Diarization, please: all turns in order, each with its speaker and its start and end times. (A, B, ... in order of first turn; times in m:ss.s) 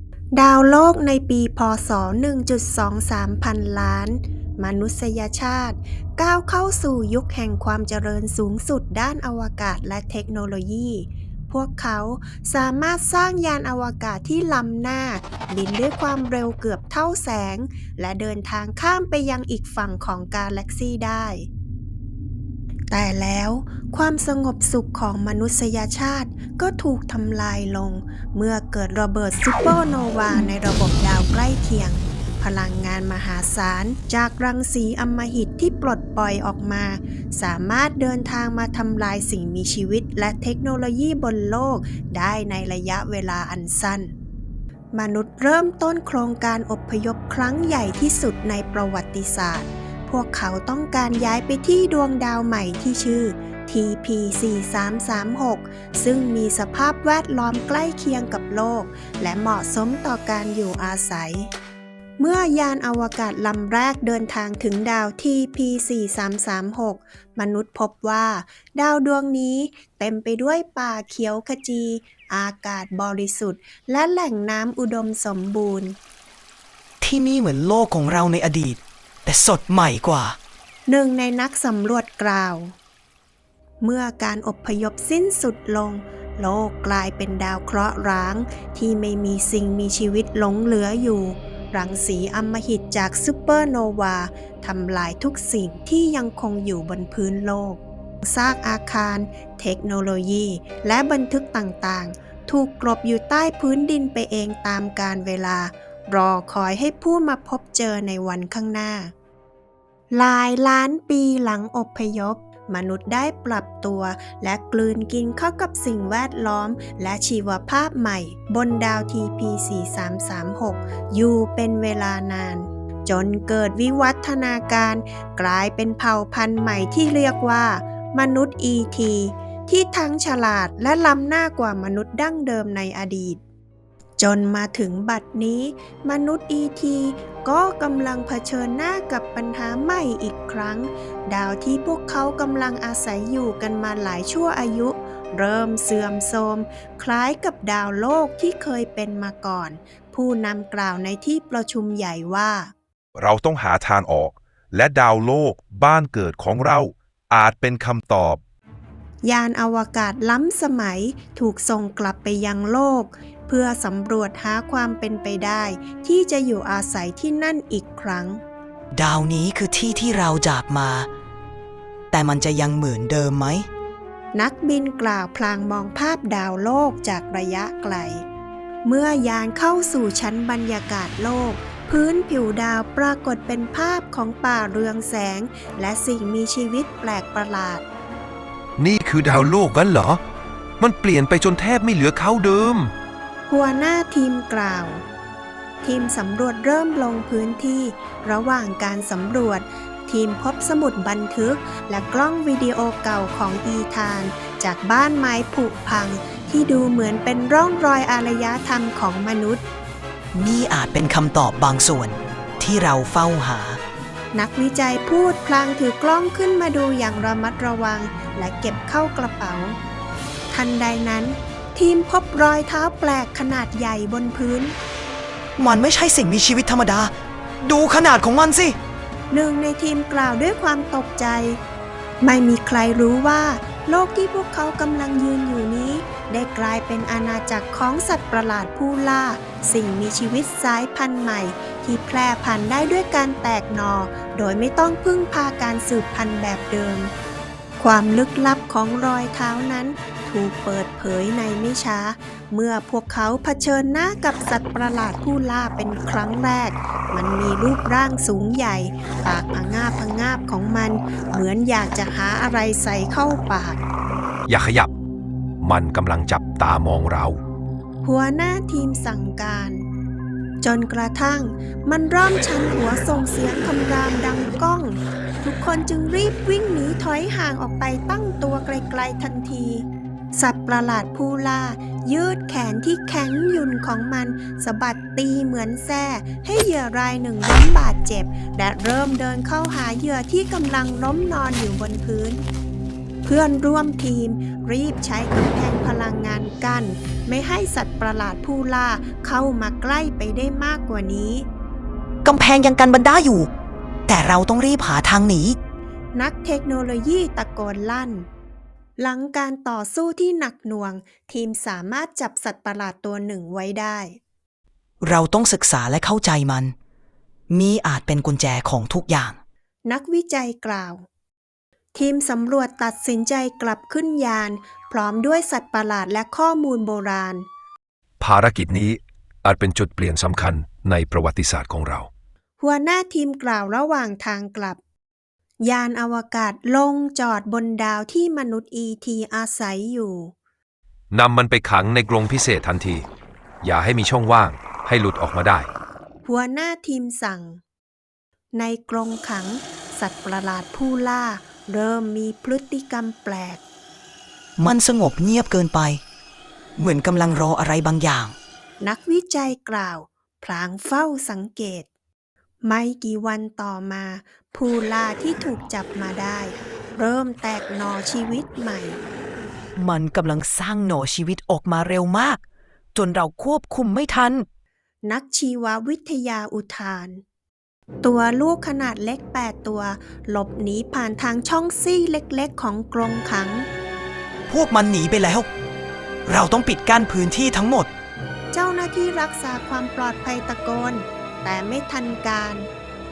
0:00.3-0:21.5 A
0:22.9-0:44.1 A
0:44.9-1:01.5 A
1:02.2-1:16.0 A
1:17.0-1:20.4 B
1:20.9-1:22.7 A
1:23.8-1:49.1 A
1:50.1-2:13.4 A
2:14.2-2:32.7 A
2:33.2-2:38.4 C
2:39.2-2:48.4 A
2:48.9-2:51.1 B
2:52.1-2:53.7 B
2:54.3-2:58.2 A
2:58.8-3:07.8 A
3:08.8-3:10.2 D
3:10.8-3:12.9 D
3:13.5-3:15.0 A
3:15.8-3:29.6 A
3:30.3-3:33.8 B
3:34.3-3:39.8 A
3:40.5-3:44.7 A
3:45.6-3:48.8 B
3:49.3-3:51.6 A
3:52.2-4:07.1 A
4:07.8-4:23.8 A
4:24.5-4:24.9 D
4:25.6-4:27.4 D
4:28.0-4:29.8 A
4:30.6-4:52.4 A
4:53.2-5:01.5 A
5:02.2-5:03.5 B
5:04.1-5:05.6 B
5:06.1-5:08.3 A
5:09.0-5:14.2 A
5:15.0-5:16.7 B
5:17.5-5:19.4 B
5:19.8-5:21.0 A
5:21.9-5:27.4 A
5:28.2-5:32.1 D
5:32.6-5:34.8 A
5:35.6-5:40.3 A
5:41.1-5:43.0 D
5:43.6-5:45.7 D
5:46.2-5:47.6 A
5:48.5-5:53.6 A
5:54.6-5:56.0 B
5:56.8-5:58.3 B
5:58.8-6:01.9 A
6:02.6-6:09.0 A
6:09.8-6:12.4 B
6:12.9-6:14.4 B
6:15.0-6:17.2 A
6:18.0-6:23.7 A
6:24.5-6:25.5 B
6:26.2-6:27.9 B
6:28.5-6:32.7 A